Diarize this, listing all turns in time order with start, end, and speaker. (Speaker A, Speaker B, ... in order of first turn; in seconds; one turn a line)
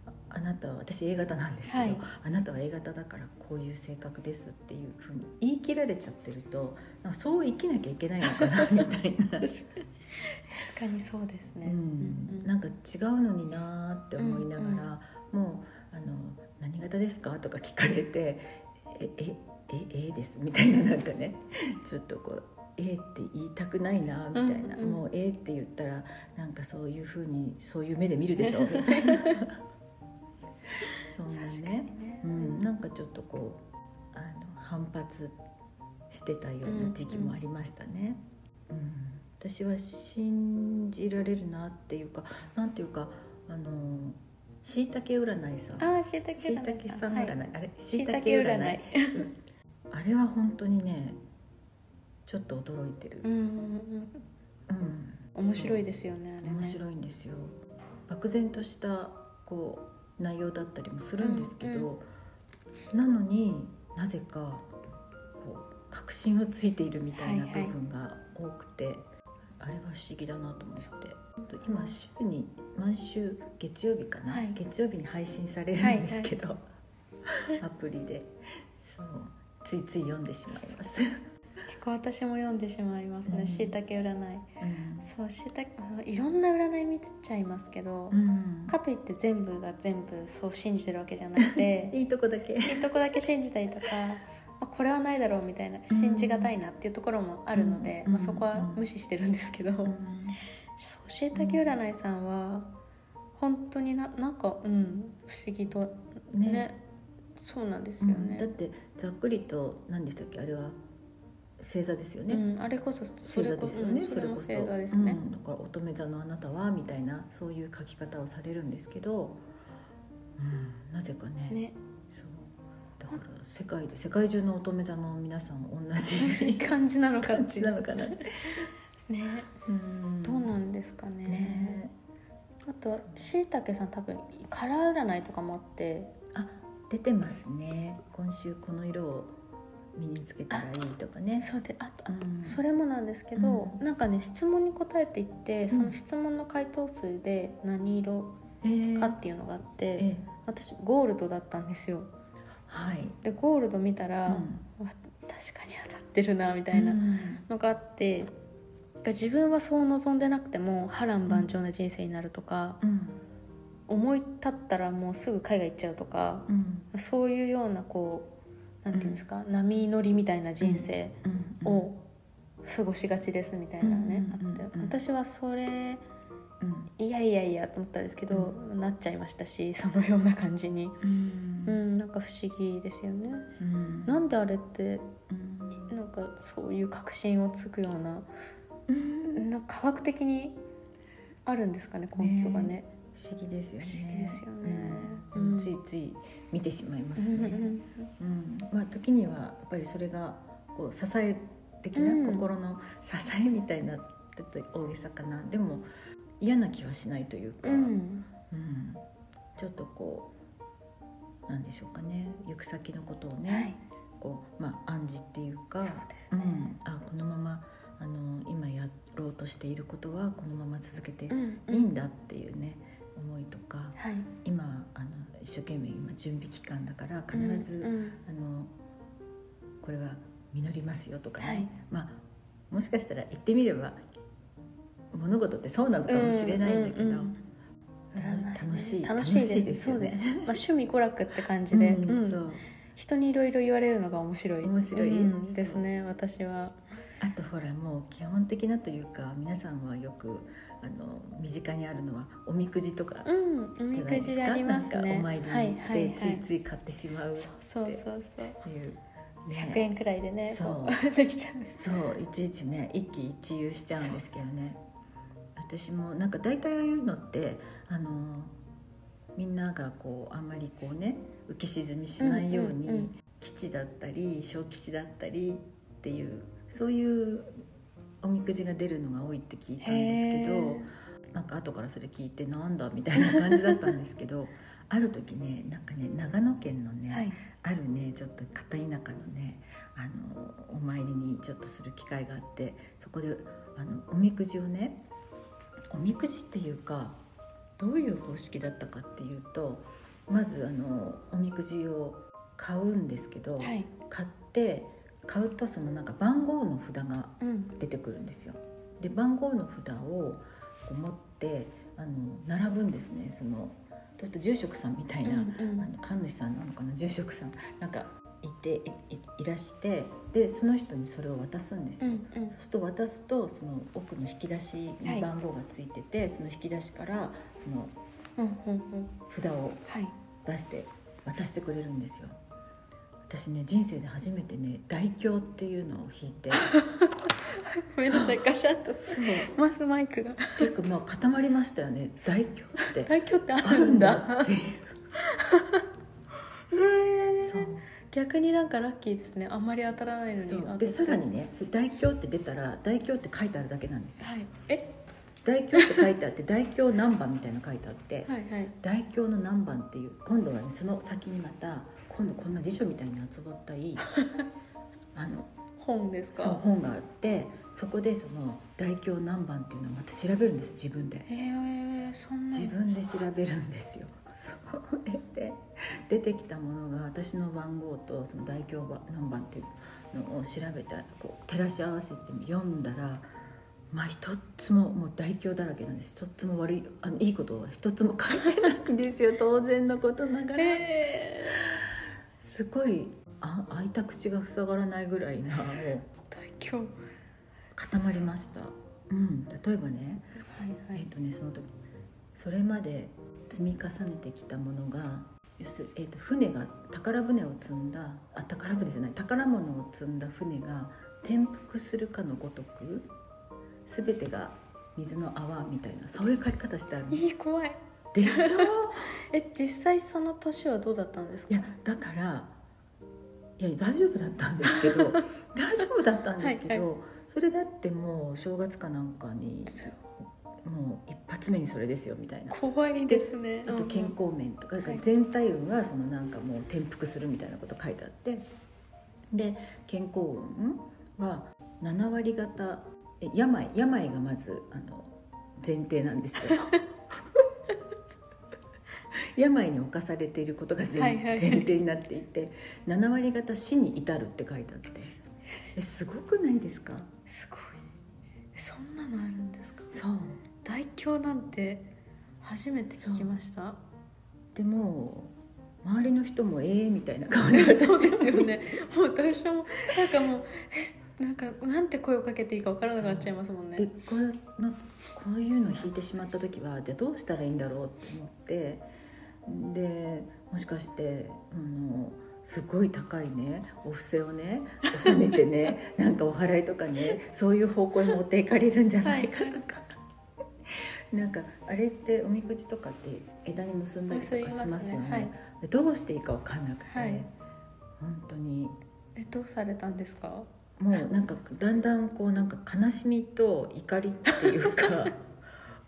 Speaker A: 0.3-9.5
Speaker B: 1.7-2.0
Speaker B: 8.3-8.8
Speaker B: 9.4-12.5
Speaker A: 11.6-29.6
Speaker B: 14.2-14.9
Speaker B: 24.3-25.0
Speaker B: 28.4-29.4
Speaker A: 30.8-33.6
Speaker B: 31.3-32.6
Speaker A: 34.1-35.4
Speaker A: 36.1-49.3
Speaker B: 36.6-37.3
Speaker B: 45.8-47.4
Speaker B: 47.9-49.3
Speaker A: 49.9-51.2
Speaker A: 52.2-53.3
Speaker B: 53.2-54.2
Speaker A: 54.7-55.9
Speaker B: 55.4-56.8
Speaker A: 56.4-57.6
Speaker A: 58.1-62.0
Speaker B: 61.2-61.9
Speaker A: 62.9-64.7
Speaker A: 65.4-69.0
Speaker B: 67.1-67.8
Speaker A: 69.6-76.6
Speaker B: 74.3-74.6
Speaker B: 75.8-76.3
Speaker A: 77.3-81.2
Speaker B: 81.7-84.5
Speaker A: 83.2-83.7
Speaker A: 84.6-85.1
Speaker B: 85.0-92.0
Speaker A: 88.1-88.8
Speaker A: 91.5-92.8
Speaker B: 92.7-100.0
Speaker A: 95.9-96.5
Speaker A: 97.5-98.8
Speaker A: 99.8-100.4
Speaker B: 100.8-102.7
Speaker A: 101.3-101.7
Speaker B: 103.4-106.8
Speaker A: 106.3-106.7
Speaker B: 107.4-108.5
Speaker A: 108.0-110.8
Speaker A: 111.6-112.5
Speaker B: 112.3-115.2
Speaker A: 113.2-119.4
Speaker A: 120.4-121.6
Speaker B: 121.5-121.8
Speaker A: 122.1-128.7
Speaker B: 126.2-128.3
Speaker B: 129.1-129.5
Speaker A: 129.6-130.5
Speaker B: 130.2-131.8
Speaker A: 131.3-131.9
Speaker B: 132.7-136.1
Speaker A: 132.9-133.2
Speaker A: 136.3-139.3
Speaker A: 139.9-141.5
Speaker B: 141.4-148.4
Speaker A: 142.1-142.6
Speaker A: 143.3-143.8
Speaker A: 145.7-145.9
Speaker A: 148.6-149.2
Speaker B: 148.9-152.1
Speaker A: 150.0-150.3
Speaker A: 152.7-153.2
Speaker B: 153.2-158.3
Speaker A: 154.2-154.6
Speaker A: 156.7-157.4
Speaker B: 159.0-162.8
Speaker A: 162.8-163.2
Speaker B: 163.9-172.0
Speaker A: 166.5-166.9
Speaker A: 168.9-169.2
Speaker A: 170.6-171.8
Speaker B: 172.6-176.0
Speaker A: 173.8-174.9
Speaker A: 176.6-176.9
Speaker B: 177.0-181.0
Speaker A: 178.3-178.6
Speaker A: 181.0-181.8
Speaker B: 181.7-183.5
Speaker A: 183.6-184.2
Speaker B: 184.1-185.1
Speaker A: 185.3-185.9
Speaker B: 185.7-188.3
Speaker A: 188.9-189.4
Speaker B: 189.3-190.6
Speaker B: 191.4-192.9
Speaker A: 192.2-205.9
Speaker B: 193.8-195.7
Speaker B: 197.2-198.1
Speaker B: 201.9-202.4
Speaker A: 206.4-208.0
Speaker B: 207.6-208.3
Speaker A: 208.5-209.0
Speaker A: 209.6-210.3
Speaker A: 211.5-228.7
Speaker B: 213.5-213.8
Speaker B: 215.8-216.7
Speaker B: 221.3-221.9
Speaker B: 224.0-224.3
Speaker B: 227.3-228.2
Speaker A: 229.8-234.0
Speaker B: 231.4-231.7
Speaker A: 235.1-237.3
Speaker B: 236.1-237.4
Speaker B: 238.1-242.4
Speaker A: 238.1-240.5
Speaker A: 241.7-242.6
Speaker B: 242.9-246.8
Speaker A: 244.6-245.8
Speaker A: 247.2-253.3
Speaker B: 253.2-256.5
Speaker A: 253.9-258.0
Speaker B: 257.4-258.6
Speaker A: 258.6-259.8
Speaker B: 259.5-261.8
Speaker A: 260.4-261.0
Speaker A: 261.7-264.8
Speaker B: 263.9-264.7
Speaker A: 265.6-268.5
Speaker A: 269.3-277.5
Speaker B: 272.2-273.1
Speaker A: 278.2-295.0
Speaker B: 279.8-280.9
Speaker B: 283.2-283.8
Speaker B: 287.1-287.4
Speaker A: 295.9-297.2
Speaker A: 297.8-327.9
Speaker B: 303.6-303.9
Speaker B: 307.4-307.8
Speaker B: 315.2-315.9
Speaker B: 322.0-322.5
Speaker B: 325.0-325.3
Speaker B: 328.4-329.2
Speaker A: 329.3-329.8
Speaker B: 329.9-330.1
Speaker A: 330.4-332.4
Speaker A: 333.2-336.7
Speaker B: 336.6-340.7
Speaker A: 338.1-339.5
Speaker A: 340.6-344.9
Speaker B: 342.8-344.5
Speaker B: 345.2-345.9
Speaker B: 346.7-351.3
Speaker A: 347.4-347.8
Speaker A: 350.4-354.3
Speaker B: 354.2-354.9
Speaker A: 355.4-364.1
Speaker B: 355.7-356.1
Speaker B: 358.2-358.7
Speaker B: 364.0-364.4
Speaker A: 365.1-365.5
Speaker B: 365.8-366.6
Speaker A: 366.3-371.3
Speaker B: 371.3-372.8
Speaker A: 372.5-383.2
Speaker A: 383.9-390.9
Speaker B: 390.6-391.6
Speaker A: 391.6-396.1
Speaker B: 395.6-396.9
Speaker A: 397.7-400.3
Speaker B: 397.9-398.3
Speaker B: 400.5-401.1
Speaker A: 400.9-401.7
Speaker A: 402.3-413.1
Speaker A: 413.9-417.2
Speaker B: 417.1-421.7
Speaker A: 418.1-419.1
Speaker A: 421.5-422.6
Speaker A: 423.6-430.0
Speaker B: 424.7-425.2
Speaker B: 426.4-426.8
Speaker B: 429.7-429.9
Speaker A: 430.6-438.4
Speaker B: 432.5-434.1
Speaker A: 439.3-447.4
Speaker A: 449.1-455.2
Speaker B: 450.9-451.7
Speaker A: 455.8-457.1
Speaker B: 457.3-457.8
Speaker B: 458.5-459.9
Speaker A: 459.9-460.4
Speaker B: 460.6-461.9
Speaker B: 462.4-463.8
Speaker A: 462.8-463.4
Speaker A: 464.5-468.6
Speaker B: 467.5-473.9
Speaker A: 472.9-478.9
Speaker A: 479.4-489.9
Speaker B: 485.0-485.3
Speaker B: 489.0-489.6
Speaker A: 490.7-497.3
Speaker B: 494.1-495.3
Speaker B: 496.9-497.2
Speaker A: 498.0-498.8
Speaker B: 499.1-500.5
Speaker A: 500.8-505.2
Speaker B: 504.3-505.0